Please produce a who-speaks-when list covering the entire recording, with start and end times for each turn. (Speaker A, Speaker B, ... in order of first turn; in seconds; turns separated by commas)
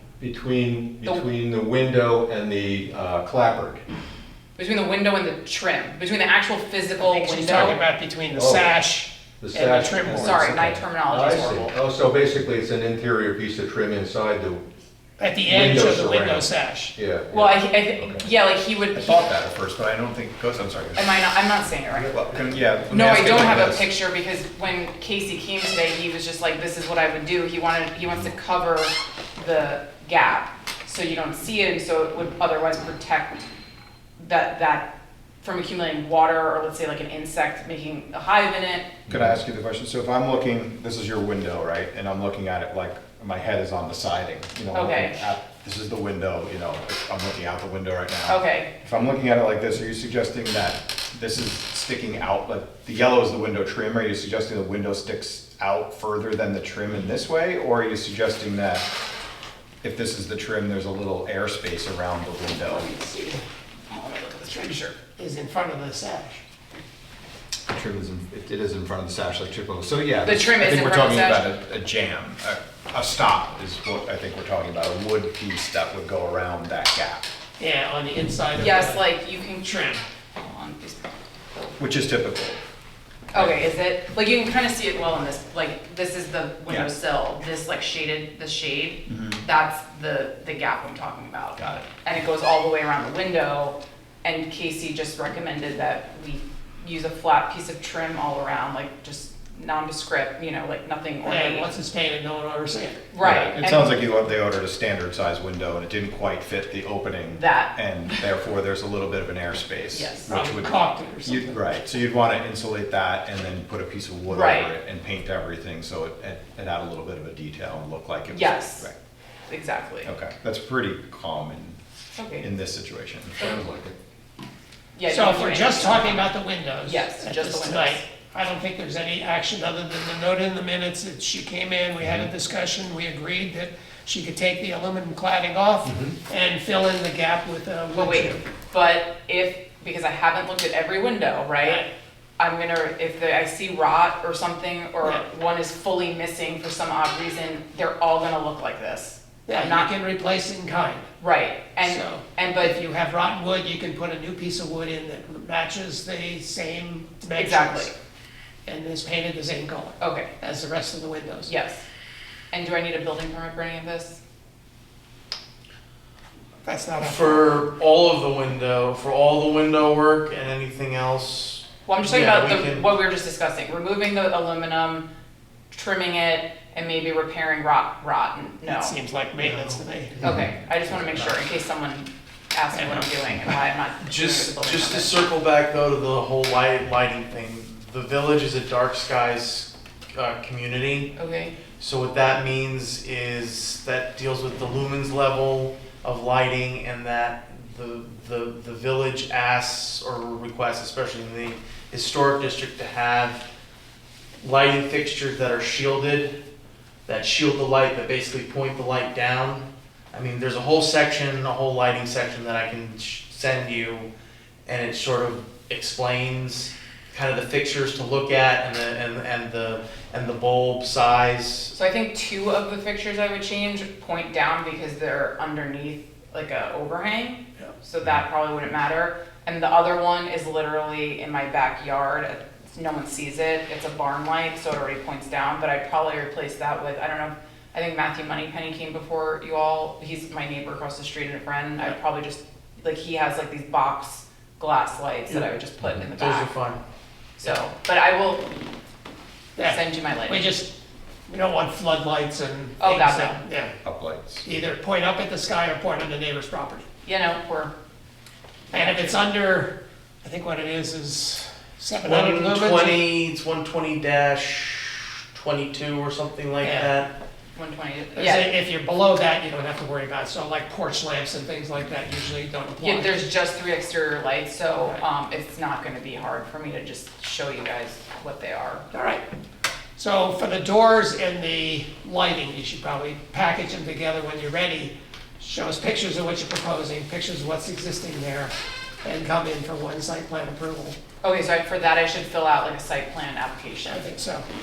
Speaker A: 0.2-3.8, Speaker B: 4.6-7.8, Speaker C: 7.0-10.8, Speaker A: 8.3-8.7, Speaker A: 9.4-14.6, Speaker B: 10.1-11.7, Speaker C: 15.2-16.9, Speaker A: 15.4-17.5, Speaker B: 17.3-19.2, Speaker D: 18.9-21.1, Speaker B: 20.9-33.5, Speaker D: 22.0-23.9, Speaker B: 34.2-38.9, Speaker D: 39.1-58.9, Speaker B: 44.7-45.3, Speaker B: 48.3-48.7, Speaker D: 59.8-62.8, Speaker C: 62.7-63.4, Speaker B: 63.9-65.0, Speaker C: 65.2-66.4, Speaker D: 67.7-77.2, Speaker B: 70.2-71.4, Speaker C: 77.6-79.0, Speaker B: 78.5-81.7, Speaker C: 79.6-80.0, Speaker D: 81.8-82.6, Speaker D: 83.3-83.6, Speaker B: 83.3-101.7, Speaker D: 89.1-89.4, Speaker D: 91.6-91.9, Speaker C: 101.2-103.0, Speaker B: 103.1-104.0, Speaker D: 103.2-110.7, Speaker B: 107.3-107.7, Speaker B: 109.9-110.4, Speaker C: 110.3-111.6, Speaker D: 111.2-118.9, Speaker B: 114.3-114.7, Speaker B: 118.3-118.9, Speaker B: 119.5-120.1, Speaker D: 120.0-121.8, Speaker B: 122.1-122.5, Speaker D: 122.4-123.4, Speaker A: 123.4-123.9, Speaker B: 125.0-126.3, Speaker C: 125.1-138.4, Speaker B: 126.8-128.0, Speaker B: 137.9-141.8, Speaker B: 142.4-149.9, Speaker C: 149.5-151.1, Speaker B: 151.2-152.8, Speaker C: 151.8-157.9, Speaker B: 157.3-157.9, Speaker C: 158.7-161.5, Speaker B: 160.0-160.3, Speaker B: 161.4-161.8, Speaker B: 162.5-164.2, Speaker C: 166.6-167.4, Speaker E: 167.0-172.8, Speaker B: 171.8-175.1, Speaker B: 175.7-178.9, Speaker C: 178.6-180.2, Speaker B: 180.2-185.2, Speaker C: 182.7-183.5, Speaker E: 184.0-191.1, Speaker B: 191.2-191.5, Speaker E: 191.8-203.4, Speaker E: 204.4-206.3, Speaker E: 207.1-214.1, Speaker E: 214.7-221.7, Speaker B: 221.7-246.5, Speaker E: 245.3-246.8, Speaker B: 247.4-248.5, Speaker C: 249.6-250.7, Speaker B: 249.6-250.4, Speaker C: 251.3-253.7, Speaker B: 252.8-253.4, Speaker D: 253.8-254.4, Speaker C: 254.4-256.8, Speaker B: 257.0-257.7, Speaker B: 258.7-259.1, Speaker C: 258.7-263.0, Speaker E: 262.0-267.1, Speaker C: 266.6-266.9, Speaker B: 267.6-268.5, Speaker C: 268.1-273.2, Speaker B: 272.8-278.8, Speaker C: 278.9-279.2, Speaker C: 280.0-288.5, Speaker C: 289.0-291.0, Speaker B: 291.2-294.1, Speaker C: 293.8-294.4